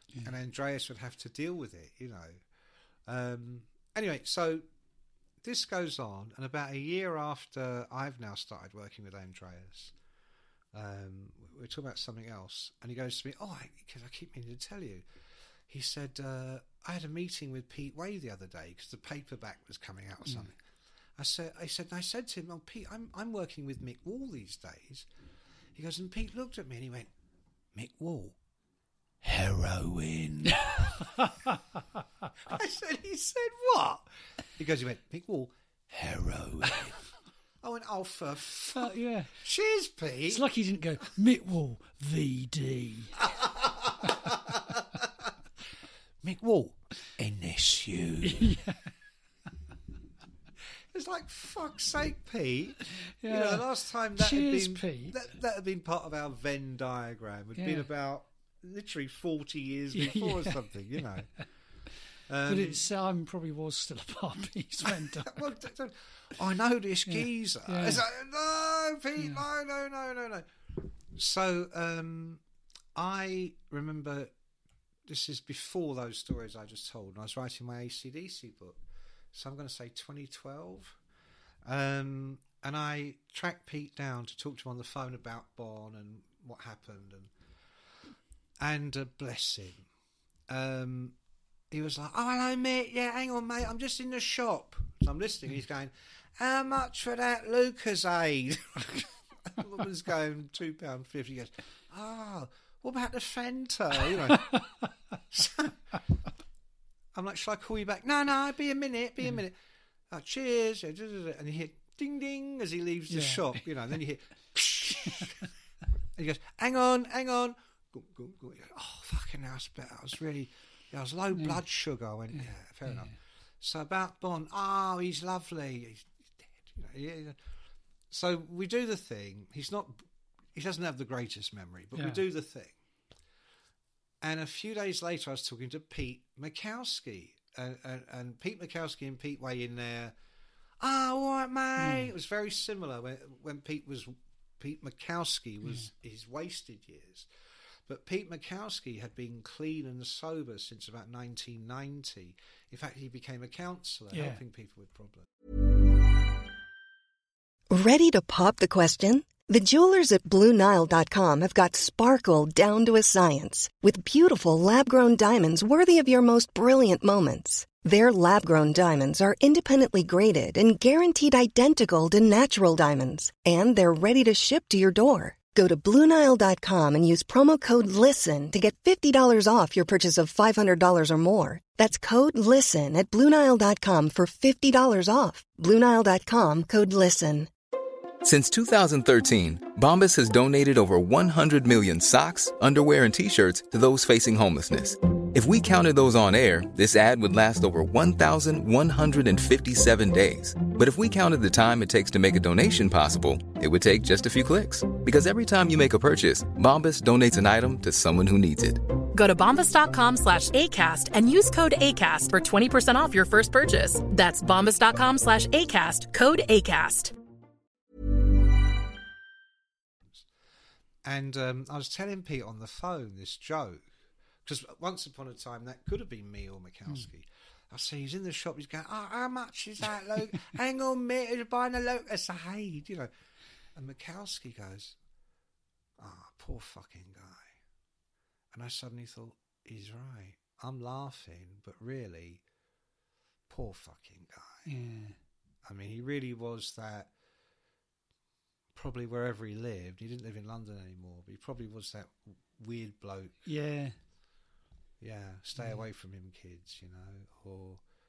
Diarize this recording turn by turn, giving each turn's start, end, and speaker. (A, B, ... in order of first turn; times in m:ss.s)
0:00.2-0:02.4 A
0:03.0-0:04.6 A
0:05.4-0:09.9 A
0:10.7-0:15.0 A
0:15.7-0:20.6 A
0:21.2-0:25.1 A
0:25.7-0:27.1 A
0:27.7-0:28.4 A
0:29.2-0:31.3 A
0:30.5-0:31.6 B
0:32.4-0:37.0 A
0:37.6-0:40.4 A
0:38.7-0:39.3 B
0:40.3-0:43.2 B
0:43.2-0:45.3 A
0:46.2-0:48.6 A
0:48.2-0:48.9 B
0:50.9-1:01.3 A
0:53.2-0:55.2 B
0:57.6-0:57.9 B
0:59.9-1:00.6 B
1:02.3-1:02.8 A
1:02.4-1:05.5 B
1:04.9-1:10.5 A
1:07.0-1:08.0 B
1:11.1-1:12.4 A
1:12.9-1:14.3 A
1:15.0-1:18.8 A
1:19.3-1:21.0 A
1:21.6-1:27.3 A
1:28.6-1:29.9 A
1:30.5-1:31.1 A
1:31.7-1:44.6 A
1:45.3-1:45.8 A
1:47.1-1:49.6 A
1:50.1-1:55.5 A
1:53.1-1:53.6 B
1:56.2-2:07.4 A
2:01.3-2:01.6 B
2:02.3-2:03.1 B
2:08.1-2:12.7 A
2:11.9-2:12.2 B
2:14.2-2:20.1 A
2:20.8-2:27.3 A
2:21.8-2:22.1 B
2:27.9-2:35.3 A
2:34.1-2:34.4 B
2:37.7-3:07.5 C
3:08.2-3:28.8 D
3:29.1-3:37.1 E
3:41.0-3:43.8 A
3:44.4-3:53.1 A
3:53.7-3:54.9 A
3:56.0-3:57.6 A
3:58.5-4:02.4 A
4:03.5-4:04.6 A
4:04.6-4:05.2 B
4:05.6-4:07.1 A
4:08.7-4:13.4 A
4:13.4-4:13.9 B
4:15.0-4:17.8 A